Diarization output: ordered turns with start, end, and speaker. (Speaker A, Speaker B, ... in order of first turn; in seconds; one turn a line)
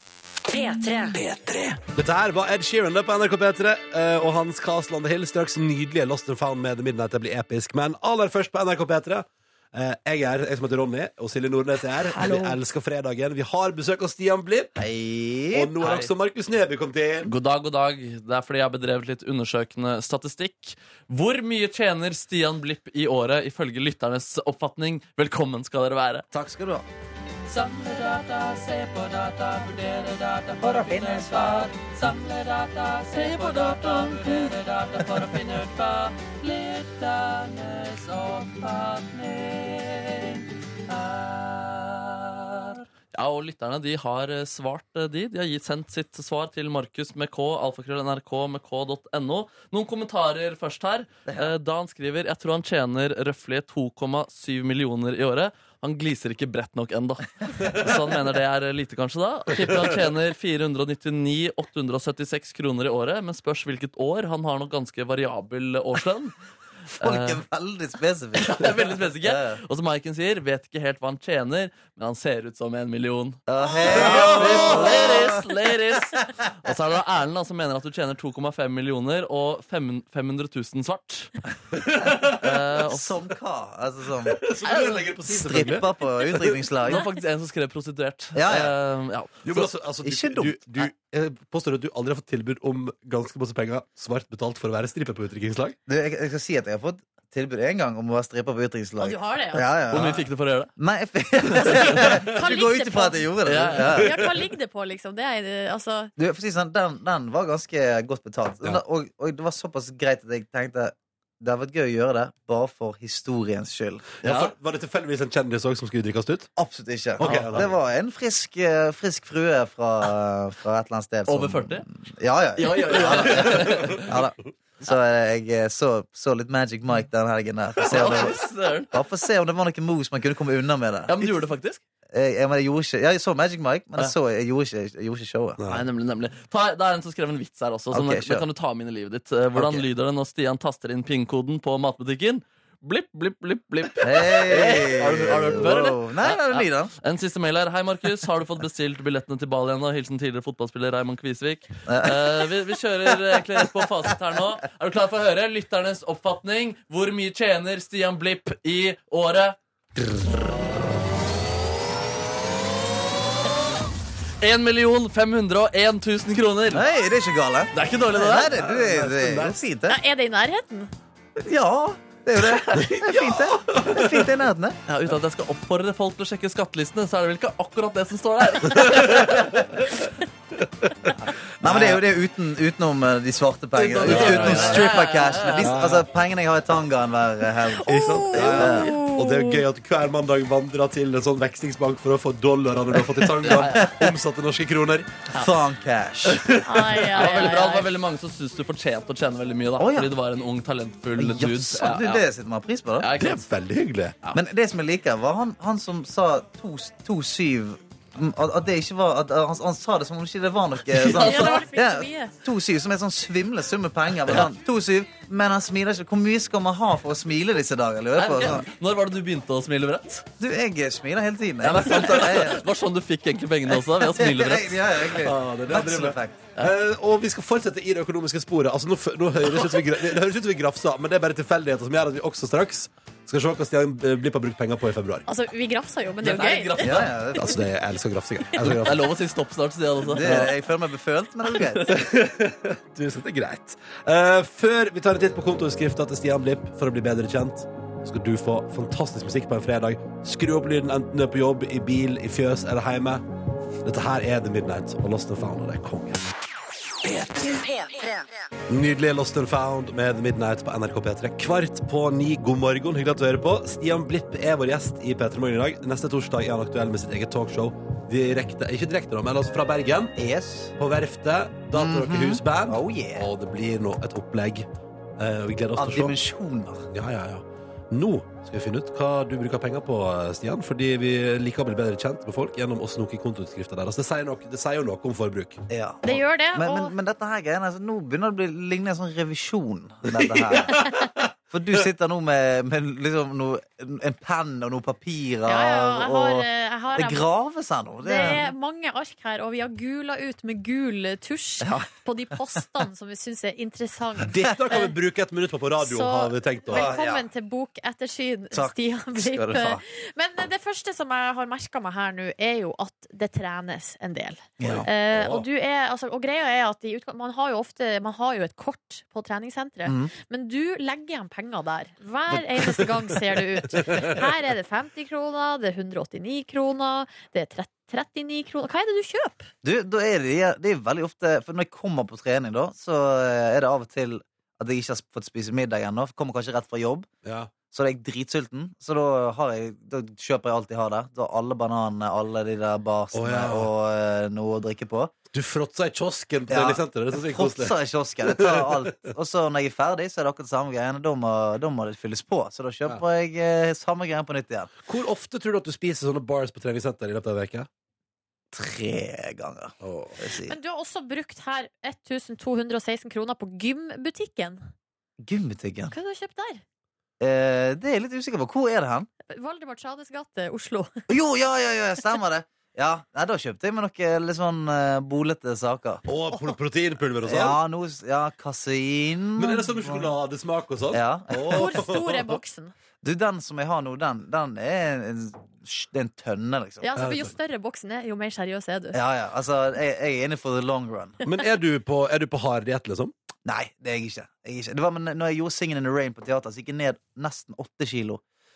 Speaker A: 0.5-1.7
Speaker B: 1.8-14.7
Speaker C: 14.8-15.7
Speaker B: 15.5-17.3
Speaker D: 15.8-16.1
Speaker D: 17.2-26.3
Speaker C: 26.3-26.9
Speaker D: 27.5-66.3
Speaker C: 30.6-31.7
Speaker C: 33.2-34.5
Speaker C: 51.3-51.5
Speaker D: 67.0-67.4
Speaker C: 67.0-69.6
Speaker D: 68.4-81.3
Speaker C: 73.5-76.3
Speaker B: 73.9-75.2
Speaker B: 81.8-82.5
Speaker D: 82.4-83.1
Speaker C: 82.8-87.1
Speaker B: 84.3-86.5
Speaker D: 86.9-89.5
Speaker C: 88.3-88.7
Speaker B: 89.4-95.8
Speaker C: 89.5-90.9
Speaker C: 95.9-100.3
Speaker E: 99.0-99.7
Speaker D: 99.9-100.7
Speaker C: 100.8-104.2
Speaker D: 101.7-101.9
Speaker E: 102.2-106.1
Speaker D: 103.5-103.9
Speaker B: 104.1-104.4
Speaker C: 106.2-114.3
Speaker D: 114.2-114.5
Speaker B: 114.2-116.5
Speaker C: 116.6-131.3
Speaker B: 117.2-117.8
Speaker D: 117.2-117.6
Speaker D: 121.3-121.8
Speaker D: 122.6-124.1
Speaker B: 122.9-124.3
Speaker D: 127.8-128.9
Speaker B: 127.9-128.3
Speaker D: 131.1-131.8
Speaker C: 132.1-135.6
Speaker B: 135.6-135.8
Speaker D: 135.7-159.6
Speaker C: 137.9-138.4
Speaker B: 139.6-139.8
Speaker C: 144.0-146.9
Speaker C: 151.9-152.5
Speaker D: 164.4-166.8
Speaker C: 166.7-170.0
Speaker D: 167.7-168.5
Speaker B: 168.5-169.6
Speaker E: 169.9-170.9
Speaker C: 171.4-174.8
Speaker B: 172.5-174.3
Speaker D: 174.9-179.7
Speaker B: 178.7-179.6
Speaker B: 181.6-182.0
Speaker C: 181.6-188.9
Speaker D: 183.8-185.8
Speaker B: 184.0-184.9
Speaker B: 185.6-186.1
Speaker E: 187.8-189.6
Speaker B: 187.9-195.3
Speaker D: 193.4-193.9
Speaker C: 193.5-194.1
Speaker C: 195.3-196.5
Speaker B: 196.3-197.3
Speaker E: 196.6-197.9
Speaker D: 197.1-202.2
Speaker C: 199.8-200.1
Speaker C: 201.2-203.2
Speaker D: 203.0-203.5
Speaker B: 203.2-204.2
Speaker C: 204.3-218.7
Speaker D: 211.0-211.7
Speaker E: 211.1-212.3
Speaker D: 218.2-220.3
Speaker C: 220.4-222.6
Speaker D: 221.6-224.8
Speaker C: 224.0-226.5
Speaker B: 225.2-235.3
Speaker E: 235.3-237.0
Speaker D: 236.2-237.1
Speaker C: 236.8-237.6
Speaker B: 237.4-239.1
Speaker D: 238.6-240.5
Speaker C: 240.1-242.0
Speaker B: 240.2-240.5
Speaker B: 241.9-253.2
Speaker B: 253.8-256.2
Speaker A: 257.3-258.3
Speaker B: 258.7-270.2
Speaker C: 270.2-270.7
Speaker B: 270.8-276.1
Speaker C: 271.7-273.3
Speaker C: 275.8-276.9
Speaker B: 276.9-285.6
Speaker C: 285.7-290.9
Speaker E: 286.0-286.9
Speaker B: 290.1-291.2
Speaker C: 291.5-298.5
Speaker E: 295.5-297.3
Speaker E: 298.0-304.9
Speaker C: 301.6-301.9
Speaker B: 304.3-306.9
Speaker E: 305.8-329.5
Speaker C: 306.7-307.3
Speaker C: 308.5-309.8
Speaker C: 314.6-314.9
Speaker B: 314.6-315.5
Speaker C: 319.9-320.1
Speaker B: 323.8-324.2
Speaker C: 329.6-337.1
Speaker B: 337.2-337.5
Speaker C: 337.7-345.1
Speaker B: 343.1-343.7
Speaker B: 345.3-349.1
Speaker C: 346.5-354.7
Speaker B: 354.8-357.7
Speaker C: 358.5-360.6
Speaker B: 359.8-360.2
Speaker E: 360.5-364.6
Speaker C: 365.2-365.9
Speaker E: 365.9-366.6
Speaker C: 367.2-369.1
Speaker E: 369.3-370.9
Speaker C: 371.1-376.0
Speaker B: 376.1-377.6
Speaker C: 377.2-380.1
Speaker B: 379.4-382.4
Speaker C: 380.9-381.7
Speaker E: 381.5-382.7
Speaker C: 383.0-386.9
Speaker E: 386.8-389.0
Speaker B: 386.9-387.3
Speaker C: 388.9-391.2
Speaker B: 391.2-393.1
Speaker C: 393.4-398.2